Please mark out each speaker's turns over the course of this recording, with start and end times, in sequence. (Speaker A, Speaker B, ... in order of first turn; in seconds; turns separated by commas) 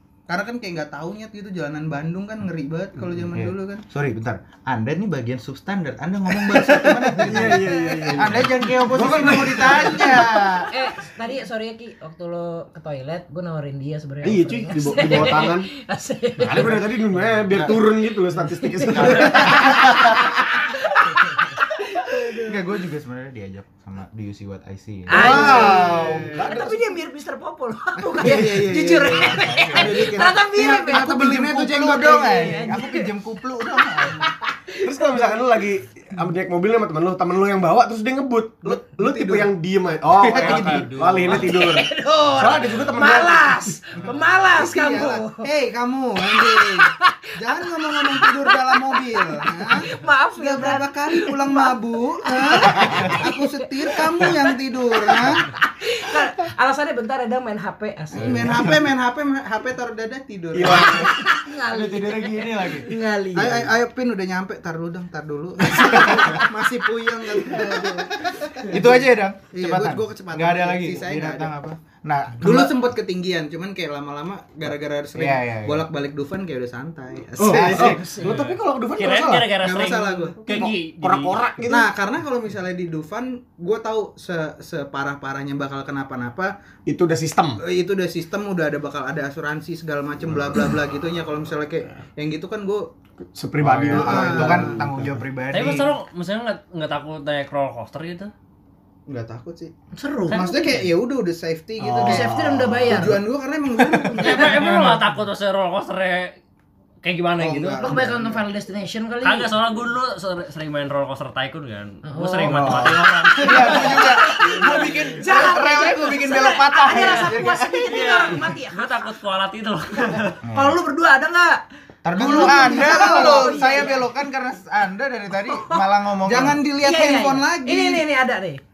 Speaker A: 0.3-3.8, Speaker B: 3.2-10.7, Speaker A: 6.4-7.8, Speaker C: 7.2-10.4, Speaker A: 9.0-9.9, Speaker D: 10.7-16.8, Speaker C: 14.2-15.7, Speaker C: 16.4-20.1, Speaker B: 17.5-17.8, Speaker D: 18.7-22.4, Speaker B: 19.0-20.3, Speaker A: 19.0-19.6, Speaker A: 22.1-22.5, Speaker B: 22.4-26.2, Speaker D: 25.1-31.4, Speaker A: 25.1-26.5, Speaker C: 25.1-26.9, Speaker A: 28.0-32.6, Speaker B: 29.1-30.3, Speaker B: 30.9-34.2, Speaker D: 32.0-33.1, Speaker D: 34.0-35.0, Speaker C: 34.8-43.7, Speaker A: 38.6-39.5, Speaker A: 40.2-40.9, Speaker E: 40.2-41.5, Speaker B: 40.3-40.8, Speaker D: 41.3-45.5, Speaker A: 44.5-55.5, Speaker D: 46.3-54.5, Speaker D: 55.1-58.6, Speaker A: 58.1-61.1, Speaker C: 58.5-58.7, Speaker C: 60.5-62.8, Speaker D: 60.7-63.7, Speaker B: 62.3-62.9, Speaker A: 63.3-71.5, Speaker B: 65.7-66.4, Speaker D: 67.5-68.1, Speaker B: 68.7-72.8, Speaker A: 72.4-78.0, Speaker B: 75.1-75.9, Speaker C: 77.4-79.6, Speaker B: 77.4-78.0, Speaker D: 77.7-78.5, Speaker E: 78.2-81.4, Speaker A: 79.6-80.4, Speaker C: 80.4-81.9, Speaker A: 81.7-86.5, Speaker C: 86.9-87.6, Speaker A: 87.6-92.9, Speaker C: 93.3-95.2, Speaker B: 93.6-95.9, Speaker A: 93.9-94.8, Speaker E: 95.5-98.3, Speaker A: 99.1-99.7, Speaker D: 99.9-100.9, Speaker A: 100.3-102.3, Speaker C: 101.8-103.1, Speaker D: 101.9-103.2, Speaker A: 102.8-105.0, Speaker E: 104.2-106.3, Speaker B: 104.5-105.0, Speaker E: 107.0-108.0, Speaker A: 107.4-108.4, Speaker D: 107.8-109.5, Speaker E: 109.2-114.2, Speaker D: 112.0-119.1, Speaker C: 112.5-113.0, Speaker B: 113.4-117.9, Speaker E: 117.0-117.3, Speaker E: 117.9-120.4, Speaker D: 120.1-121.6, Speaker B: 120.4-120.8, Speaker B: 122.0-126.7, Speaker A: 122.1-123.9, Speaker D: 122.1-124.1, Speaker D: 125.4-125.8, Speaker A: 126.2-128.0, Speaker D: 126.4-128.6